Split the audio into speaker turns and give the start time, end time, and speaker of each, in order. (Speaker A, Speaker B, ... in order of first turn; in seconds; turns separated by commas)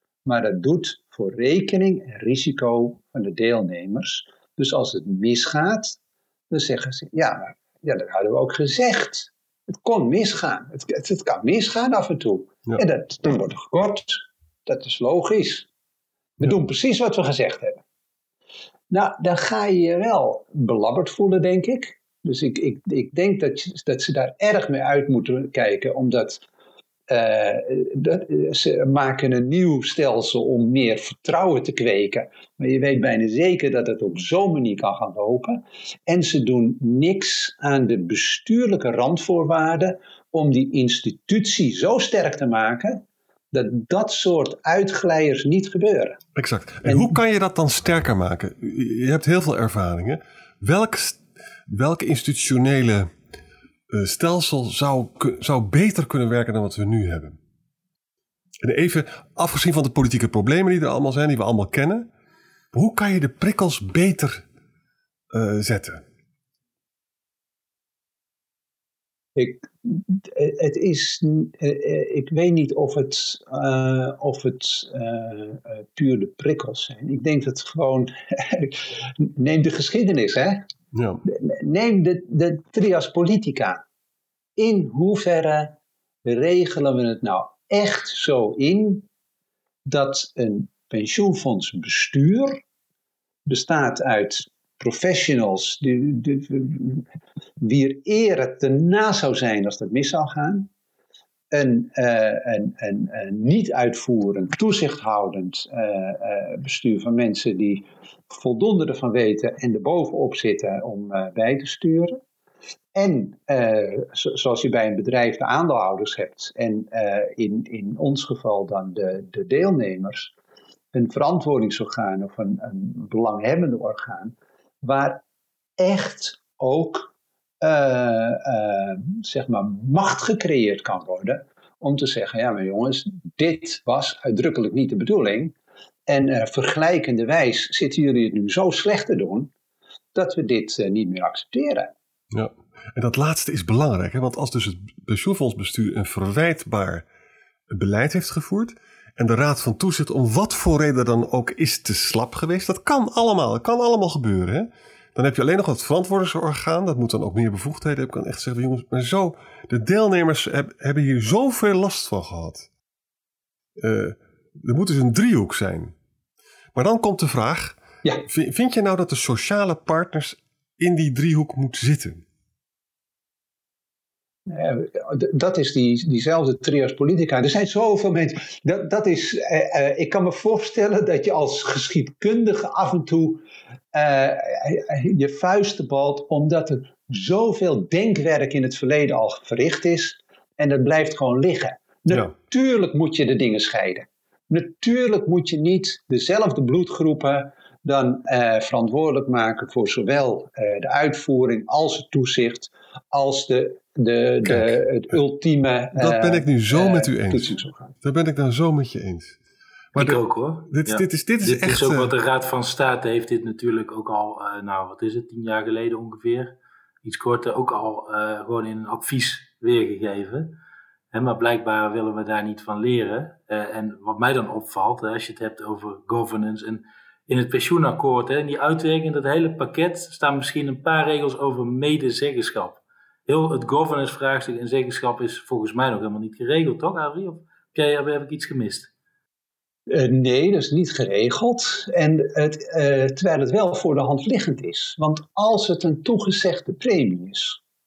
Speaker A: 0.2-6.0, Speaker A: 6.5-15.7, Speaker A: 16.4-17.8, Speaker A: 18.9-26.4, Speaker A: 27.1-46.2, Speaker B: 46.4-53.1, Speaker A: 46.9-47.2, Speaker B: 53.9-57.4, Speaker B: 58.6-62.1, Speaker B: 62.7-64.5, Speaker B: 65.3-66.0, Speaker A: 69.3-80.7, Speaker B: 80.9-81.2, Speaker A: 81.2-83.8, Speaker A: 84.6-89.1, Speaker A: 89.9-92.6, Speaker A: 93.5-97.1, Speaker A: 97.6-100.7, Speaker A: 101.5-112.2, Speaker A: 113.0-120.3, Speaker A: 120.9-125.2, Speaker A: 125.8-135.6, Speaker A: 136.1-139.5, Speaker A: 140.1-141.9, Speaker B: 142.3-147.1, Speaker B: 147.7-162.7, Speaker B: 163.8-165.9, Speaker B: 166.8-172.2, Speaker A: 174.5-207.9, Speaker B: 204.4-204.8, Speaker B: 205.9-209.4, Speaker B: 209.9-212.1, Speaker C: 210.0-220.6, Speaker C: 221.1-238.9, Speaker A: 239.9-247.6